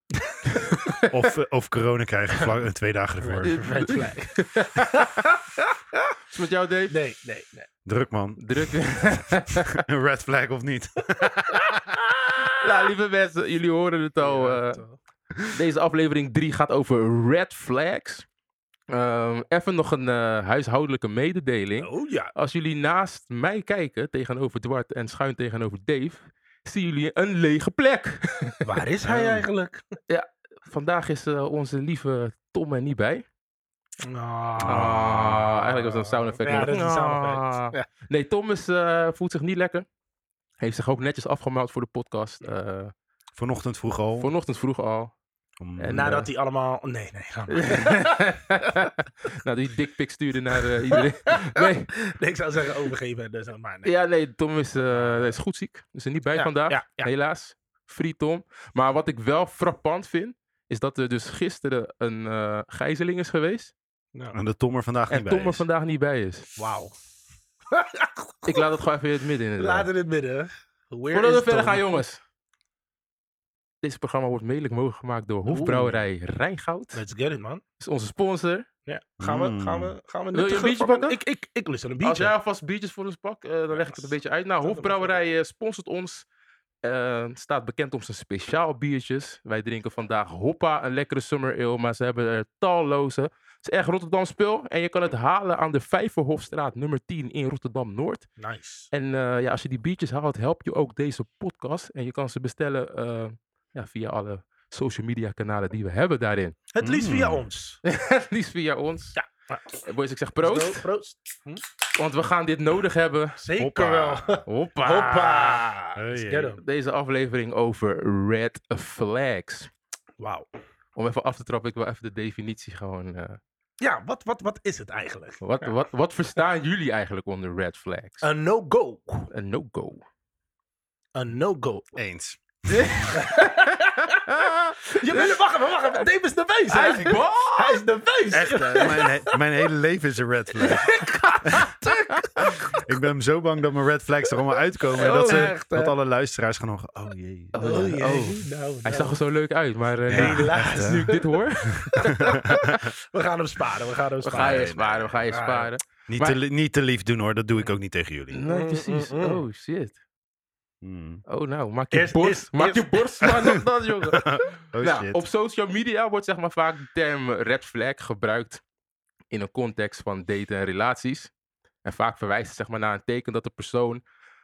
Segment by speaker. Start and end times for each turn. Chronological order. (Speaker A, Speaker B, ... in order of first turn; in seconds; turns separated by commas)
Speaker A: 0.2-0.7, Speaker B: 0.5-1.3, Speaker C: 1.1-3.6, Speaker A: 3.2-6.1, Speaker B: 3.4-5.2, Speaker B: 6.3-7.0, Speaker A: 6.9-7.7, Speaker C: 7.8-8.4, Speaker B: 8.4-9.8, Speaker C: 9.3-11.8, Speaker A: 11.1-12.6, Speaker B: 12.6-14.8, Speaker A: 14.2-15.0, Speaker B: 15.4-18.2, Speaker B: 18.9-29.4, Speaker A: 21.8-22.3, Speaker A: 28.6-29.9, Speaker B: 30.1-33.2, Speaker A: 34.0-37.9, Speaker C: 34.6-35.6, Speaker B: 34.6-39.9, Speaker B: 40.6-42.9, Speaker C: 43.3-44.3, Speaker B: 44.2-45.1, Speaker C: 45.6-46.0, Speaker B: 45.8-46.3, Speaker A: 45.9-48.9, Speaker B: 47.5-51.9, Speaker A: 50.9-53.9, Speaker B: 53.8-63.7, Speaker A: 54.9-55.3, Speaker A: 56.3-57.1, Speaker C: 64.3-65.6, Speaker B: 65.1-66.5, Speaker A: 66.6-66.9, Speaker A: 67.7-68.7, Speaker B: 68.5-69.9, Speaker A: 69.6-72.0, Speaker B: 71.1-72.2, Speaker B: 73.8-77.0, Speaker A: 75.5-76.0, Speaker A: 76.9-77.6, Speaker B: 77.8-78.7, Speaker A: 78.8-82.3, Speaker C: 79.2-79.9, Speaker B: 80.3-81.2, Speaker B: 82.0-86.3, Speaker A: 83.7-85.2, Speaker B: 86.8-98.3, Speaker A: 98.4-98.9, Speaker B: 98.9-106.6, Speaker A: 106.7-107.8, Speaker C: 106.8-107.5, Speaker B: 107.8-109.2, Speaker A: 109.2-109.8, Speaker B: 109.8-110.8, Speaker A: 110.4-111.6, Speaker B: 111.9-113.4, Speaker A: 113.4-116.6, Speaker C: 113.6-114.4, Speaker B: 114.5-115.7, Speaker C: 116.0-116.5, Speaker B: 116.6-119.7, Speaker A: 120.2-120.5, Speaker B: 121.0-123.4, Speaker A: 123.8-125.8, Speaker B: 125.4-128.2, Speaker A: 128.2-129.3, Speaker B: 129.3-130.0, Speaker A: 131.2-131.9, Speaker C: 131.9-133.1, Speaker B: 132.7-135.4, Speaker A: 133.1-134.3, Speaker A: 134.8-139.4, Speaker B: 136.7-137.8, Speaker C: 138.3-147.9, Speaker B: 140.6-142.4, Speaker A: 140.7-142.8, Speaker A: 144.9-145.9, Speaker B: 144.9-145.5, Speaker B: 147.5-152.8, Speaker A: 147.6-149.2, Speaker C: 150.1-151.1, Speaker A: 150.1-155.7, Speaker C: 152.1-152.6, Speaker B: 154.2-156.4, Speaker C: 154.4-155.2, Speaker C: 156.1-158.4, Speaker B: 158.3-160.0, Speaker A: 158.5-159.4, Speaker C: 160.8-161.2, Speaker B: 161.3-168.6, Speaker A: 161.9-163.3, Speaker C: 163.2-165.2, Speaker B: 169.3-171.3, Speaker B: 171.8-174.0